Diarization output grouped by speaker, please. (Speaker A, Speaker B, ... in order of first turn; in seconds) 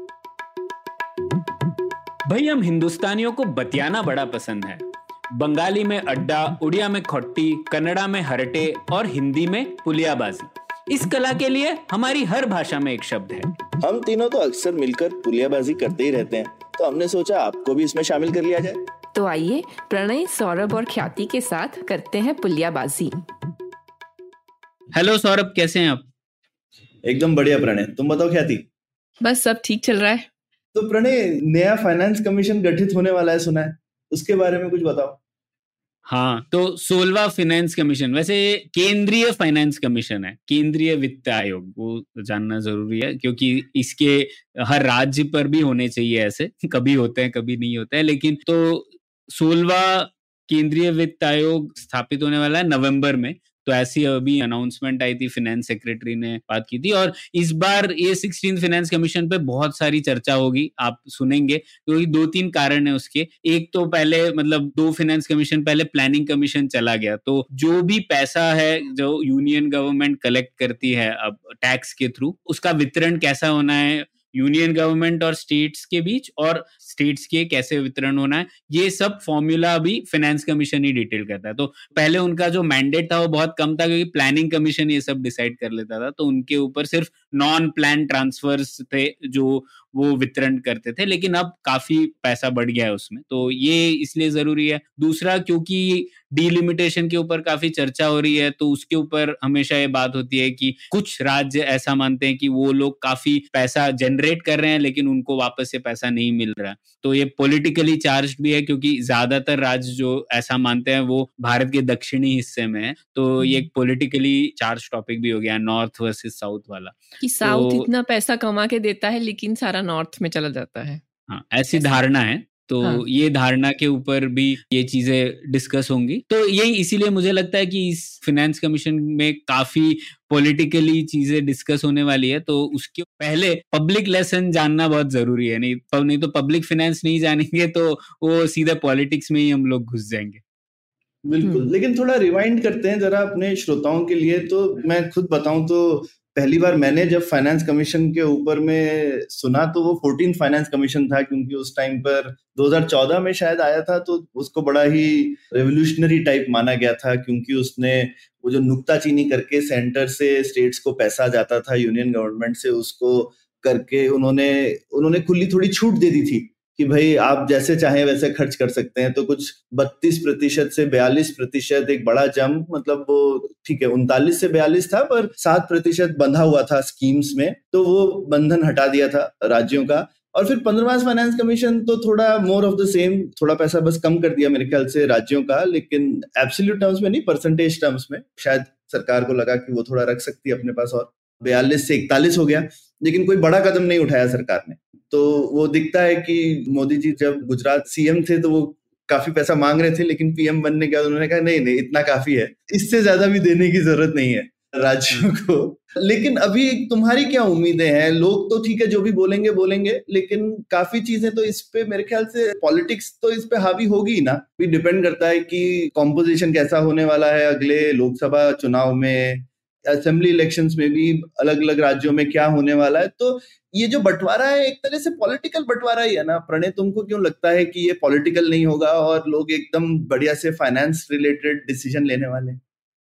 Speaker A: 2.3-13.5, 24.9-26.1, 36.1-117.9, 121.3-140.4
Speaker B: 13.8-18.8, 27.1-28.7, 30.7-35.2, 141.2-232.6
Speaker C: 19.1-23.2, 29.2-30.3, 113.4-113.7, 117.2-121.0, 141.4-141.7